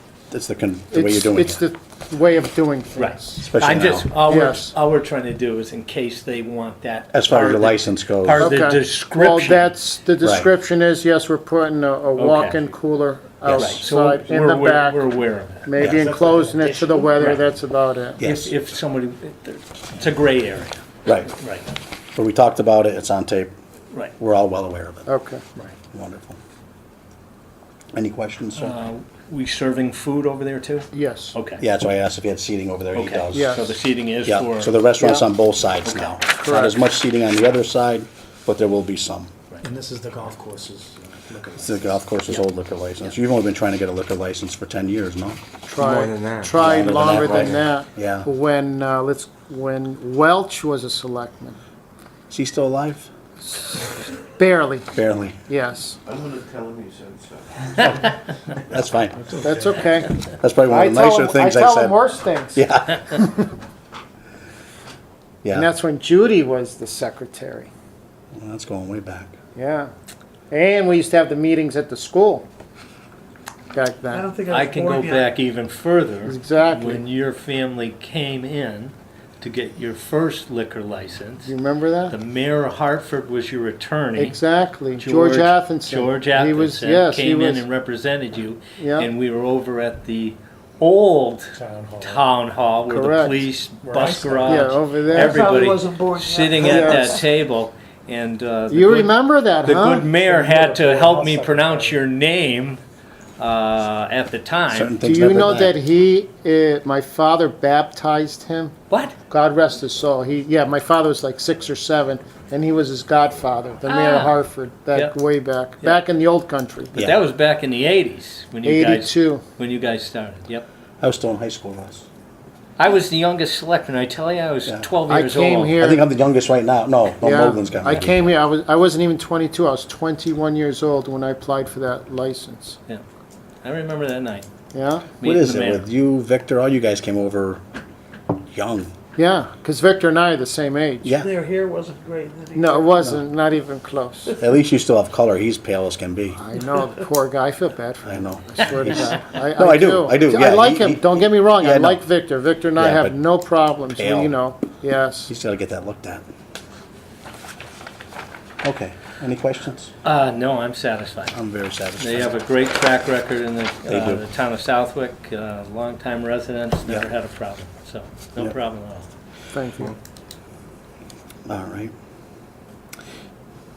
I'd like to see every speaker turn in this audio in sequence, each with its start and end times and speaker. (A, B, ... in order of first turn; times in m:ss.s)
0:00.3-0:01.6 A
0:00.9-0:03.4 B
0:03.0-0:09.7 C
0:03.4-0:04.1 A
0:04.3-0:04.7 B
0:07.1-0:08.5 A
0:08.4-0:15.0 B
0:12.2-0:12.6 C
0:13.4-0:13.8 A
0:13.6-0:15.7 C
0:15.6-0:18.2 B
0:15.8-0:17.4 D
0:18.2-0:18.5 A
0:18.2-0:21.6 C
0:21.0-0:21.3 A
0:22.2-0:23.5 A
0:24.2-0:25.1 A
0:25.1-0:25.4 B
0:25.9-0:26.4 A
0:27.9-0:28.8 A
0:28.6-0:31.6 C
0:30.9-0:31.4 B
0:31.6-0:33.6 A
0:32.9-0:34.8 C
0:33.3-0:33.7 B
0:34.2-0:39.3 A
0:35.0-0:35.2 B
0:35.8-0:36.1 C
0:36.4-0:36.8 B
0:39.6-0:41.9 D
0:41.5-0:45.4 A
0:45.7-0:51.6 B
0:45.8-0:46.4 D
0:46.0-0:46.4 E
0:46.6-0:48.3 A
0:52.3-0:53.1 A
0:53.6-0:54.9 B
0:54.9-0:55.4 A
0:55.5-0:56.0 B
0:56.1-0:57.6 E
0:58.6-0:59.2 A
0:59.2-0:59.8 D
0:59.4-1:00.1 B
1:00.4-1:02.0 A
1:00.6-1:03.5 B
1:02.5-1:03.1 A
1:05.4-1:05.7 A
1:05.5-1:07.7 B
1:08.3-1:09.3 A
1:09.5-1:09.9 B
1:10.5-1:12.4 B
1:13.7-1:14.3 B
1:14.1-1:15.3 D
1:14.5-1:21.5 C
1:16.2-1:17.0 B
1:21.4-1:22.2 B
1:22.1-1:24.4 C
1:24.2-1:27.6 B
1:25.0-1:42.8 C
1:28.8-1:29.1 B
1:31.5-1:32.2 D
1:32.8-1:33.5 B
1:33.8-1:37.2 D
1:34.4-1:35.7 B
1:36.6-1:37.1 B
1:38.7-1:40.1 B
1:40.2-1:42.0 D
1:43.4-1:44.9 C
1:44.7-1:45.7 A
1:45.0-1:48.7 B
1:48.9-1:49.1 C
1:49.3-1:56.9 B
1:53.9-1:54.4 C
1:56.9-1:57.2 A
1:56.9-2:00.6 C
1:58.6-1:59.4 B
2:01.0-2:02.0 A
2:02.8-2:05.8 C
2:05.0-2:06.0 B
2:05.8-2:08.3 A
2:07.2-2:12.8 B
2:13.6-2:14.4 C
2:14.7-2:15.1 B
2:15.2-2:15.8 C
2:15.2-2:17.6 A
2:18.5-2:18.9 A
2:19.2-2:21.2 B
2:21.0-2:21.3 A
2:21.2-2:23.1 D
2:22.5-2:24.4 B
2:24.4-2:26.4 A
2:26.4-2:35.3 B
2:28.0-2:29.0 A
2:29.5-2:32.0 A
2:32.8-2:33.2 A
2:34.0-2:34.3 A
2:35.3-2:36.2 A
2:38.6-2:39.9 A
2:40.0-2:41.3 C
2:41.3-2:42.3 A
2:42.0-2:49.1 C
2:43.9-2:44.2 A
2:49.5-2:49.9 B
2:51.5-2:51.9 A